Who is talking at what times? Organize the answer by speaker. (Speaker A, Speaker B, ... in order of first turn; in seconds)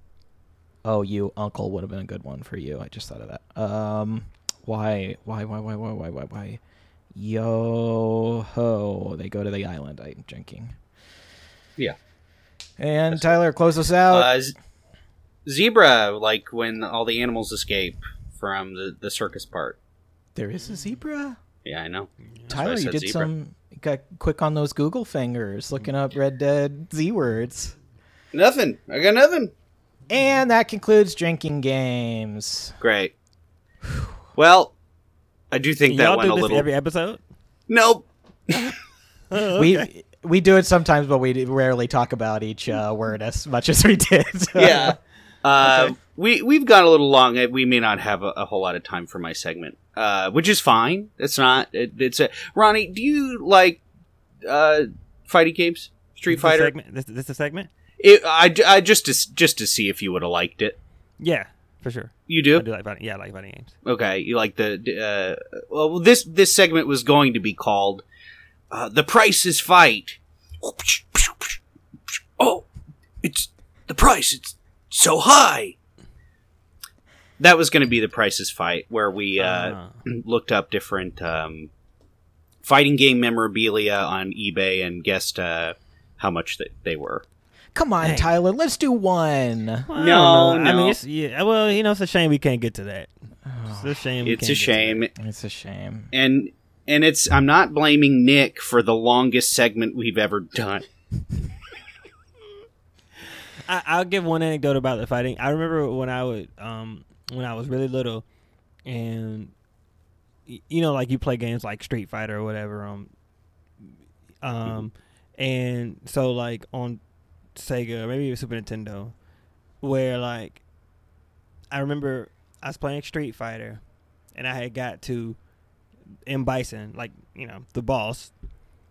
Speaker A: 0.8-6.6, 7.1-10.7, 12.8-14.3, 20.3-21.4, 22.5-27.8, 30.1-32.8, 33.9-34.1, 39.5-45.0, 87.7-89.9, 93.5-94.1, 95.2-96.1
Speaker B: 13.1-13.4, 14.1-14.6, 15.4-19.8, 21.6-23.3, 28.3-29.5, 32.8-33.1, 34.4-34.7, 35.5-36.7, 37.7-38.7, 44.5-53.8, 54.4-56.7, 58.0-60.8, 62.3-62.6, 63.8-68.0, 68.7-71.6, 72.4-72.6, 73.2-75.7, 77.4-81.7, 82.6-87.2, 90.0-91.0, 94.2-95.1, 96.1-100.9
Speaker C: 20.6-20.9, 35.9-37.2, 39.3-39.9, 45.6-45.9, 56.3-57.7, 61.2-63.7, 79.4-80.0, 88.0-88.3, 89.9-93.1, 93.7-95.0, 103.7-108.2, 108.8-109.5, 110.5-113.1, 114.4-117.0, 117.5-119.2, 119.8-120.6, 121.7-123.8, 124.3-125.4, 126.3-128.3